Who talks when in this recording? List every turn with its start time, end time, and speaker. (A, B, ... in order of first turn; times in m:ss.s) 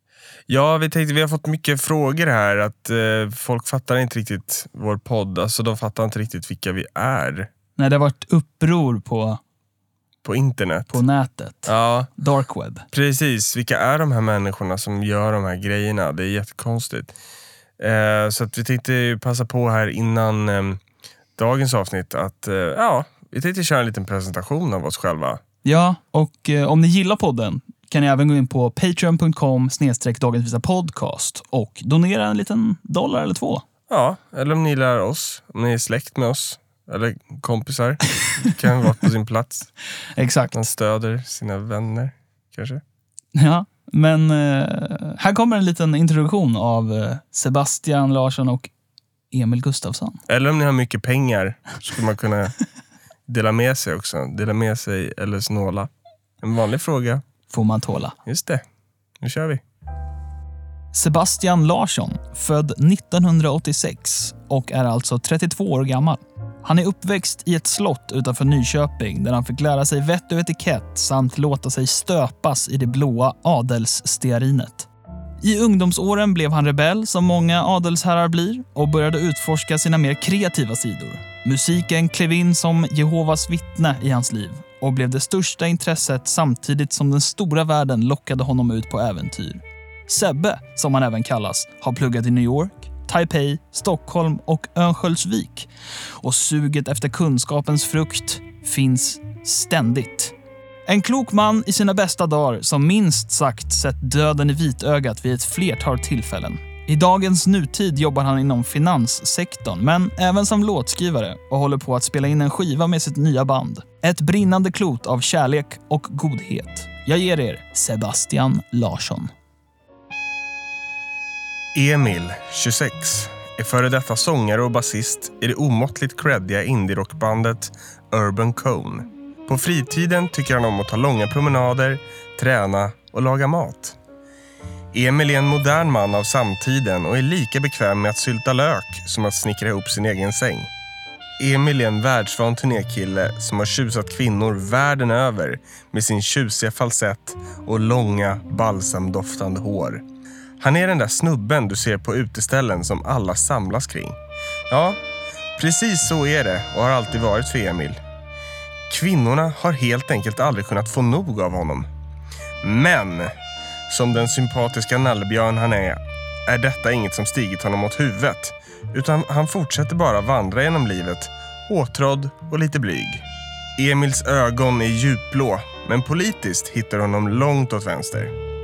0:00.5-0:07.5 A
0:07.8-0:09.4 B
0:10.2-0:11.0 A
0:10.9-0:12.8 B
0:11.7-0:12.1 A
0:12.9-0:17.1 A
0:17.8-0:20.8 A
0:21.4-0:25.4 A
0:25.6-0:33.6 B
0:33.9-0:39.7 A
0:40.2-0:40.7 B
0:40.5-0:42.8 A
0:43.4-0:48.7 B
0:49.3-0:50.2 B
0:50.3-0:52.6 A
0:53.3-0:55.9 A
0:56.4-0:57.2 A
0:57.5-0:58.2 B
0:58.3-0:58.6 A
0:59.2-0:59.6 A
1:00.9-1:14.9 B
1:15.4-1:40.3 B
1:40.9-1:59.3 B
2:01.8-2:14.0 A
2:14.9-2:20.7 A
2:21.4-2:30.0 A
2:30.6-2:34.2 A
2:34.7-2:35.0 A
2:35.6-2:38.0 A
2:38.9-2:41.9 A
2:42.6-2:43.3 A
2:43.9-2:53.2 A
2:53.8-2:58.3 A